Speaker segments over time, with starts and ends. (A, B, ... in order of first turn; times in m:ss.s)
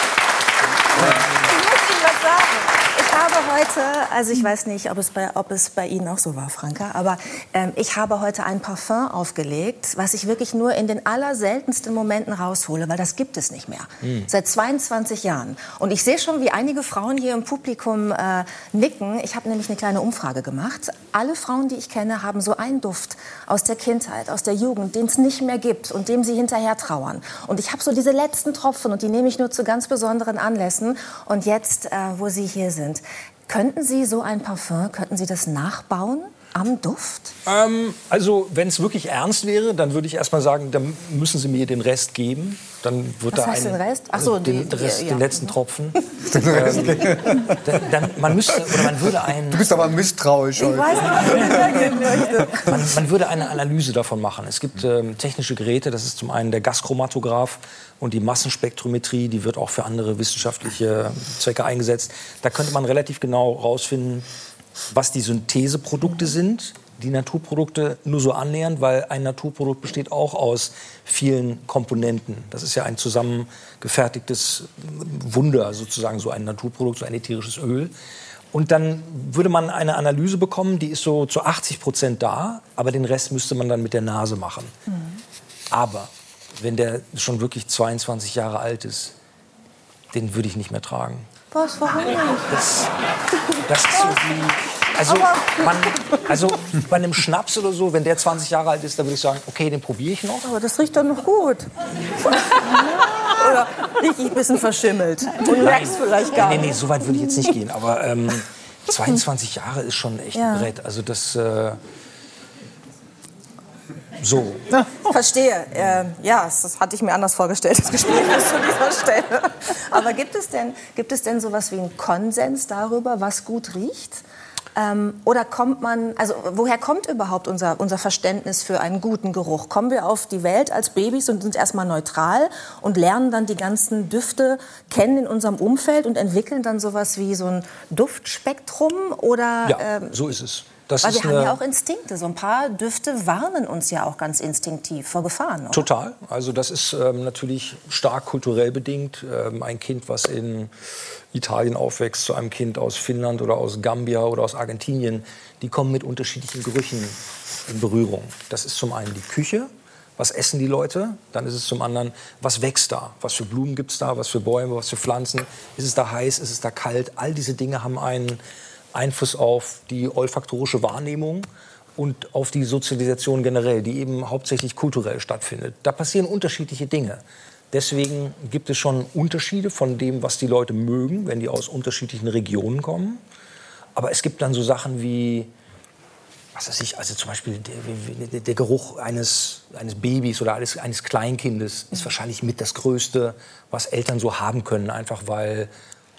0:01.0-0:37.4 A
0:37.5-0:49.7 B
0:43.3-0:45.6 A
0:46.3-0:47.8 C
0:49.4-0:52.1 C
0:50.6-0:52.9 A
0:52.7-1:04.3 B
1:04.9-1:17.9 B
1:18.5-1:24.7 B
1:24.9-1:25.2 A
1:25.7-1:29.1 B
1:30.1-1:31.3 B
1:31.5-1:32.6 A
1:32.5-1:32.9 B
1:33.6-1:40.5 B
1:33.9-1:34.4 A
1:35.0-1:36.4 A
1:40.4-1:41.7 A
1:42.2-1:46.8 A
1:45.4-1:51.8 B
1:50.4-1:50.7 A
1:54.2-1:54.7 B
1:54.9-2:04.2 A
2:04.8-2:20.1 A
2:19.6-2:21.6 B
2:21.0-2:25.9 A
2:25.7-2:30.7 B
2:31.3-2:48.4 B
2:48.9-3:03.2 B
3:04.0-3:05.5 B
3:06.6-3:15.7 B